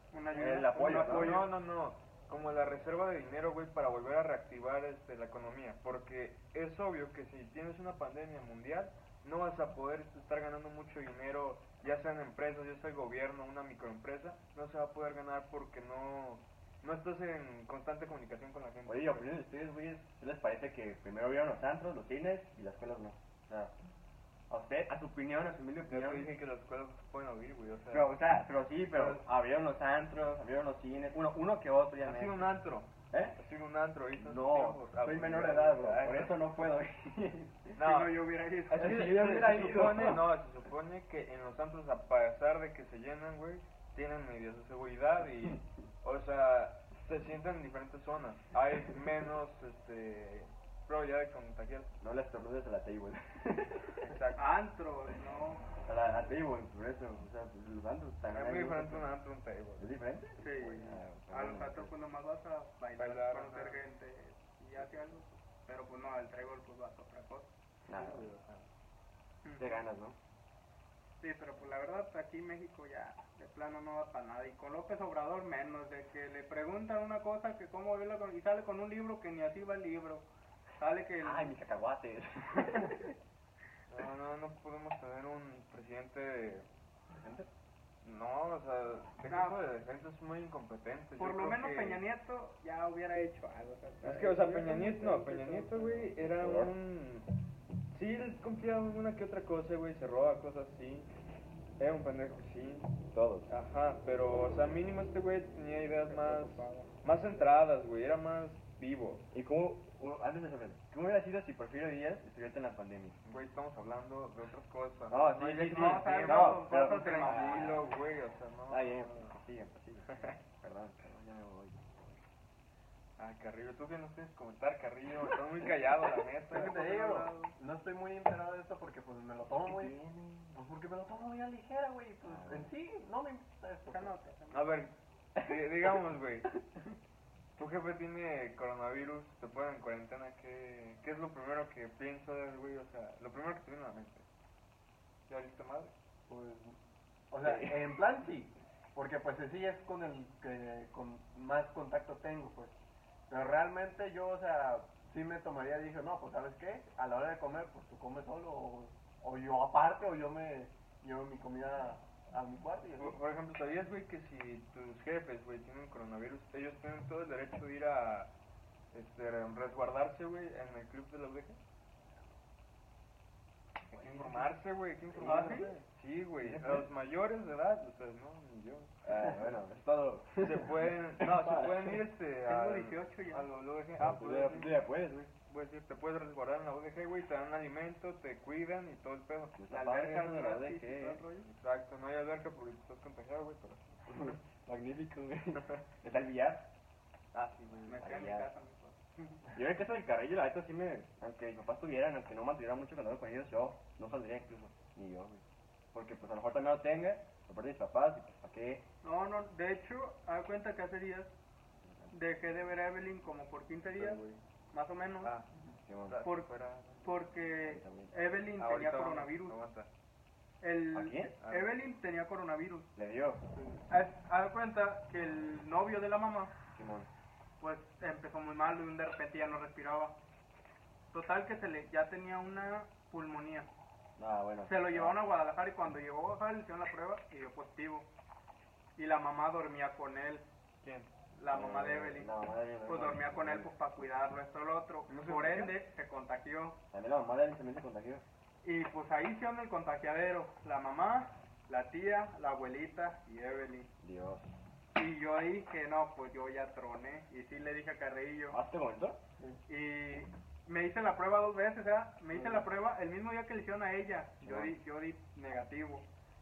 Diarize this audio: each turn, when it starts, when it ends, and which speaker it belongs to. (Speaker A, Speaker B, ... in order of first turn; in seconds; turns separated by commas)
Speaker A: 0.1-1.5, Speaker B: 0.3-1.4, Speaker C: 0.9-19.3, Speaker B: 18.9-23.7, Speaker B: 24.5-26.3, Speaker C: 25.8-28.1, Speaker B: 27.9-32.5, Speaker C: 28.9-29.2, Speaker C: 32.0-36.4, Speaker B: 33.1-33.4, Speaker B: 34.1-37.8, Speaker C: 37.8-51.9, Speaker A: 37.8-39.1, Speaker B: 38.7-40.3, Speaker B: 52.0-54.0, Speaker C: 54.0-54.4, Speaker A: 54.4-55.7, Speaker B: 55.8-59.1, Speaker C: 58.3-59.9, Speaker B: 59.8-61.9, Speaker A: 60.4-67.5, Speaker C: 63.0-63.8, Speaker B: 67.9-68.3, Speaker C: 67.9-68.7, Speaker A: 69.4-69.8, Speaker B: 69.6-70.2, Speaker A: 71.2-80.3, Speaker A: 80.8-81.5, Speaker B: 81.2-83.2, Speaker C: 83.9-86.7, Speaker B: 87.1-87.5, Speaker C: 88.0-92.0, Speaker A: 89.3-89.6, Speaker A: 91.2-95.7, Speaker C: 94.0-97.3, Speaker B: 95.1-96.7, Speaker C: 97.9-101.1, Speaker C: 101.8-103.0, Speaker B: 103.1-103.5, Speaker C: 103.5-109.2, Speaker A: 106.1-106.9, Speaker B: 109.3-113.2, Speaker C: 113.2-119.3, Speaker B: 115.1-117.9, Speaker A: 115.6-117.8, Speaker B: 118.7-122.0, Speaker C: 123.2-126.9, Speaker D: 126.5-134.1, Speaker A: 126.5-127.5, Speaker B: 129.7-130.5, Speaker B: 132.2-132.7, Speaker A: 133.9-134.8, Speaker C: 134.5-136.5, Speaker B: 135.4-135.9, Speaker C: 137.6-144.2, Speaker C: 145.3-145.9, Speaker D: 146.3-146.8, Speaker D: 147.3-152.8, Speaker B: 147.4-147.9, Speaker D: 153.3-163.2, Speaker C: 163.0-168.3, Speaker C: 168.9-171.6, Speaker C: 173.9-179.1, Speaker A: 174.1-174.4, Speaker B: 175.1-175.7, Speaker A: 175.2-175.8, Speaker B: 176.4-176.9, Speaker B: 179.0-182.0, Speaker C: 180.4-184.8, Speaker A: 182.4-183.5, Speaker B: 184.0-185.3, Speaker C: 185.5-189.6, Speaker B: 189.5-191.2, Speaker A: 189.7-191.5, Speaker C: 191.4-194.4, Speaker B: 194.1-196.7, Speaker C: 197.3-198.1, Speaker A: 197.9-199.4, Speaker B: 198.0-198.5, Speaker B: 199.5-205.4, Speaker B: 205.9-208.8, Speaker A: 209.0-211.3, Speaker A: 212.1-215.4, Speaker C: 214.0-214.4, Speaker C: 215.2-215.5, Speaker B: 215.8-216.2, Speaker C: 216.1-217.3, Speaker A: 216.2-216.5, Speaker A: 217.0-219.6, Speaker B: 217.6-218.1, Speaker C: 218.6-219.9, Speaker A: 220.6-222.9, Speaker B: 220.9-221.3, Speaker C: 221.4-221.8, Speaker B: 223.0-223.4, Speaker A: 223.9-226.5, Speaker B: 226.8-227.1, Speaker A: 227.6-230.2, Speaker A: 231.1-233.7, Speaker B: 234.2-235.2, Speaker A: 234.6-238.1, Speaker A: 239.0-240.5, Speaker C: 240.8-241.1, Speaker A: 241.4-242.3, Speaker B: 241.5-243.9, Speaker A: 242.8-246.8, Speaker C: 245.1-245.8, Speaker B: 246.9-248.2, Speaker A: 248.6-253.9, Speaker B: 254.0-254.6, Speaker A: 254.9-258.6, Speaker B: 258.5-259.2, Speaker A: 259.7-266.1, Speaker B: 262.3-262.6, Speaker B: 264.4-264.8